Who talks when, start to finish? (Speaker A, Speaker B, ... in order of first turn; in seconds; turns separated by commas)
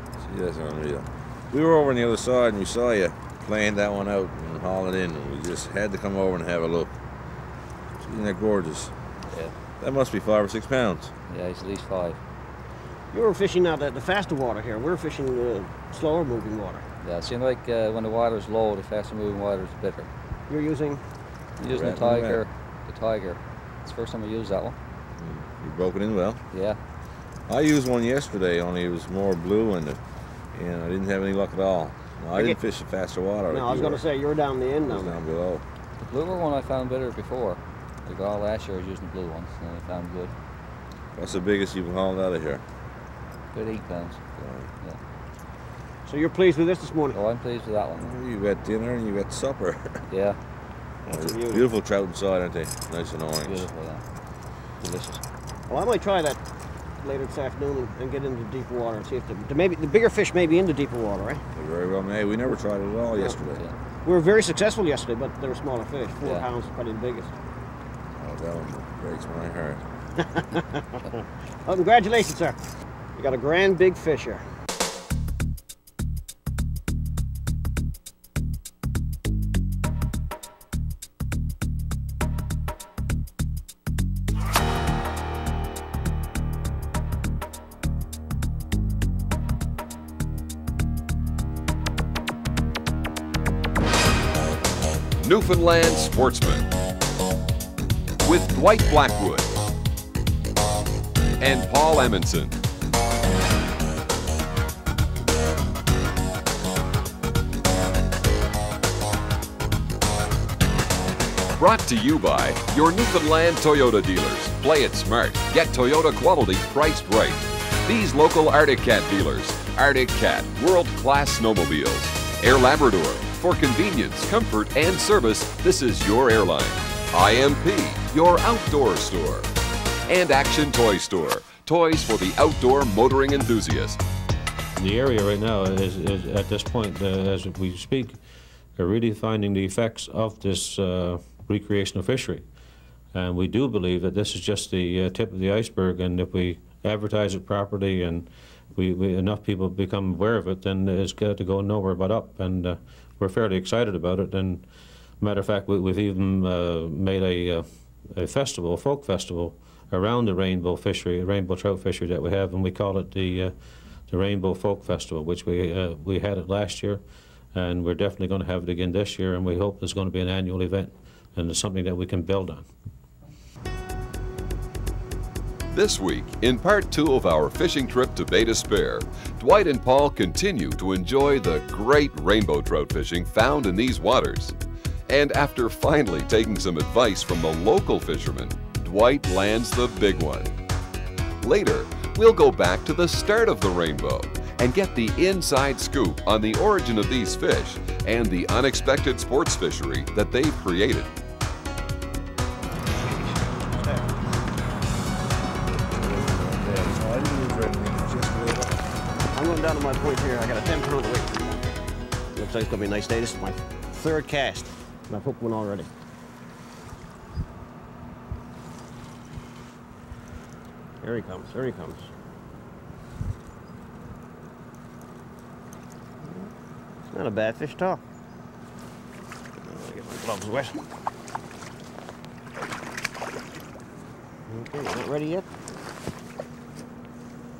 Speaker A: 0.2-7.0, Speaker A: 8.0-8.9, Speaker A: 9.8-11.1, Speaker B: 11.3-12.2, Speaker C: 13.1-16.8, Speaker B: 17.0-20.1, Speaker C: 20.5-21.0, Speaker B: 21.6-24.8, Speaker A: 21.7-22.4, Speaker A: 25.2-26.4, Speaker B: 26.5-26.8, Speaker A: 27.5-30.0, Speaker A: 30.5-34.0, Speaker C: 33.5-35.2, Speaker A: 34.8-35.6, Speaker B: 36.0-40.3, Speaker A: 41.1-42.6, Speaker B: 43.5-44.3, Speaker A: 44.4-44.7, Speaker C: 46.0-47.2, Speaker B: 47.1-48.1, Speaker A: 48.0-50.0, Speaker B: 50.1-50.4, Speaker C: 51.1-51.7, Speaker A: 51.1-53.7, Speaker B: 53.4-54.0, Speaker B: 54.8-55.2, Speaker C: 55.7-56.4, Speaker C: 57.0-61.4, Speaker A: 61.5-63.6, Speaker B: 63.5-63.8, Speaker C: 64.0-67.3, Speaker A: 68.2-69.8, Speaker C: 70.2-72.6, Speaker C: 73.2-74.4, Speaker D: 95.2-96.7, Speaker D: 98.2-99.5, Speaker D: 101.4-102.5, Speaker D: 111.6-129.5, Speaker D: 130.1-134.0, Speaker E: 134.8-138.2, Speaker E: 138.8-142.4, Speaker E: 143.1-154.7, Speaker E: 155.2-163.5, Speaker E: 164.1-167.0, Speaker E: 167.5-172.7, Speaker D: 175.7-184.5, Speaker D: 185.1-190.5, Speaker D: 191.4-201.1, Speaker A: 203.0-203.3, Speaker C: 203.7-204.0, Speaker A: 205.9-208.8, Speaker C: 209.3-211.7, Speaker C: 212.3-215.9, Speaker C: 221.0-222.1, Speaker C: 226.2-226.5, Speaker C: 227.1-228.0, Speaker C: 229.6-230.8, Speaker C: 234.5-235.4